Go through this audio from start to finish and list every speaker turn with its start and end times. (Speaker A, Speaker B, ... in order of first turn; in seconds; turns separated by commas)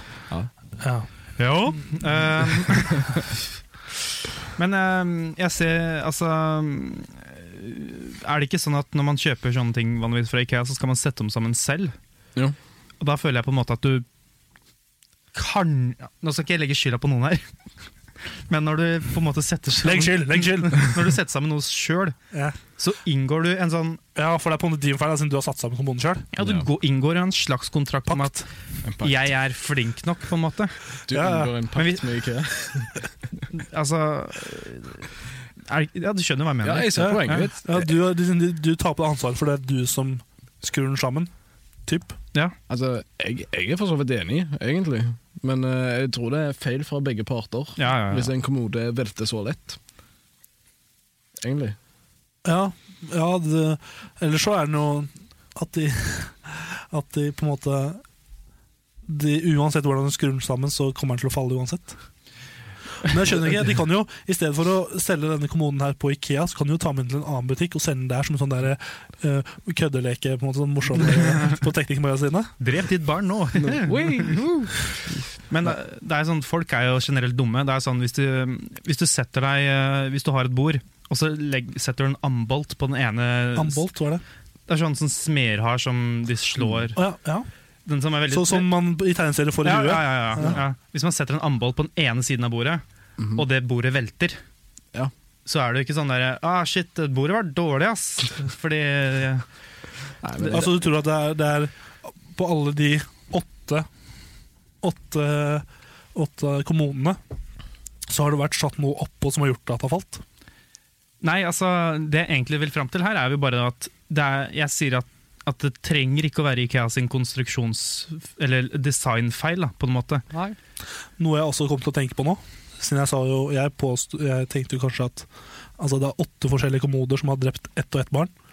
Speaker A: 0.8-1.1, Speaker B: 1.4-3.4, Speaker B: 4.6-11.9, Speaker B: 13.0-14.1, Speaker B: 15.3-17.5, Speaker B: 18.2-22.2, Speaker A: 19.8-21.0, Speaker A: 22.3-22.6, Speaker B: 22.7-24.0, Speaker A: 24.1-26.3, Speaker B: 26.3-28.4, Speaker C: 26.4-26.7, Speaker A: 28.1-28.5, Speaker C: 28.8-29.2, Speaker B: 29.0-30.8, Speaker C: 31.1-33.1, Speaker A: 31.1-31.5, Speaker B: 31.8-32.0, Speaker B: 33.5-37.5, Speaker C: 36.6-37.9, Speaker A: 37.0-41.3, Speaker A: 41.9-42.2, Speaker C: 42.7-49.8, Speaker B: 47.8-48.3, Speaker C: 51.4-51.8, Speaker A: 52.5-58.0, Speaker A: 59.1-62.0, Speaker A: 63.0-72.6, Speaker B: 72.6-74.4, Speaker C: 73.6-75.2, Speaker B: 75.5-83.8, Speaker A: 83.6-84.2, Speaker B: 84.7-87.0, Speaker A: 87.0-87.5, Speaker B: 87.9-88.7, Speaker A: 88.3-90.6, Speaker B: 89.6-92.8, Speaker C: 90.4-90.6, Speaker C: 93.2-93.5, Speaker B: 93.3-94.4, Speaker B: 95.5-99.5, Speaker C: 100.2-100.8, Speaker A: 100.5-103.9, Speaker A: 104.8-107.2, Speaker A: 108.1-110.2, Speaker B: 111.2-120.3, Speaker A: 121.2-128.3